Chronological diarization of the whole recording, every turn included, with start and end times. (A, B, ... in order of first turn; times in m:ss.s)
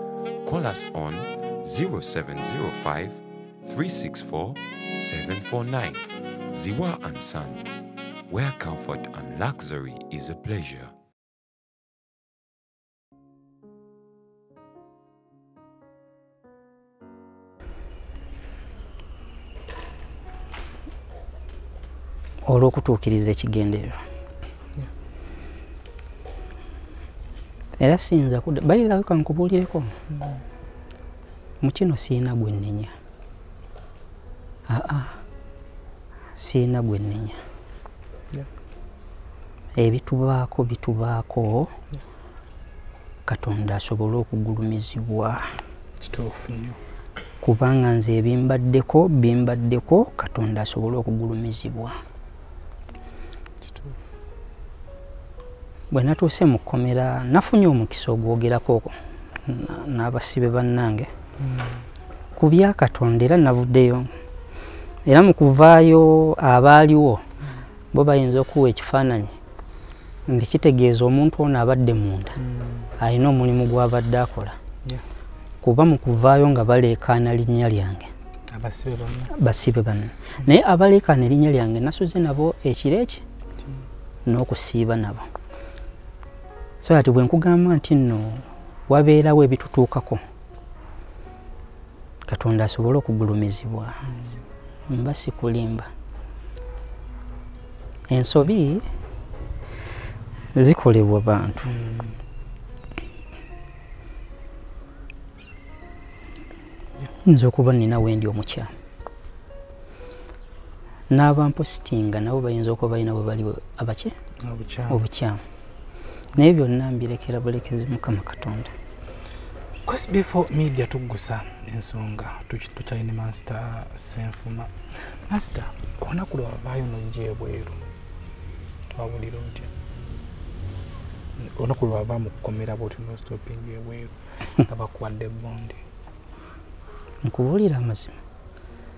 0:00.4-0:10.9 A
0:22.5-0:24.0 B
0:27.8-0:29.9 B
0:30.1-0:30.4 C
0:31.6-0:32.9 B
0:34.7-0:35.2 B
0:36.4-0:37.4 B
0:39.8-0:41.7 B
0:43.3-0:45.4 B
0:46.0-0:46.8 C
0:47.4-0:52.0 B
0:53.6-0:54.0 C
0:55.9-0:59.0 B
0:59.5-1:01.1 B
1:01.4-1:01.8 C
1:02.4-1:04.1 B
1:05.1-1:07.2 B
1:07.9-1:09.3 B
1:10.3-1:12.4 B
1:12.4-1:12.9 C
1:13.0-1:14.6 B
1:15.6-1:18.1 B
1:18.5-1:19.3 C
1:19.3-1:23.2 B
1:24.3-1:25.3 B
1:26.8-1:30.2 B
1:32.3-1:34.1 B
1:34.1-1:34.4 C
1:34.9-1:35.9 B
1:38.1-1:38.8 B
1:40.6-1:41.7 B
1:41.6-1:42.2 C
1:47.2-1:48.7 B
1:51.1-1:54.1 B
1:54.4-1:55.0 C
1:54.9-1:55.4 B
1:56.4-1:58.7 B
1:59.8-2:04.7 C
2:05.3-2:07.8 C
2:08.9-2:09.7 C
2:11.4-2:15.8 C
2:17.2-2:18.2 B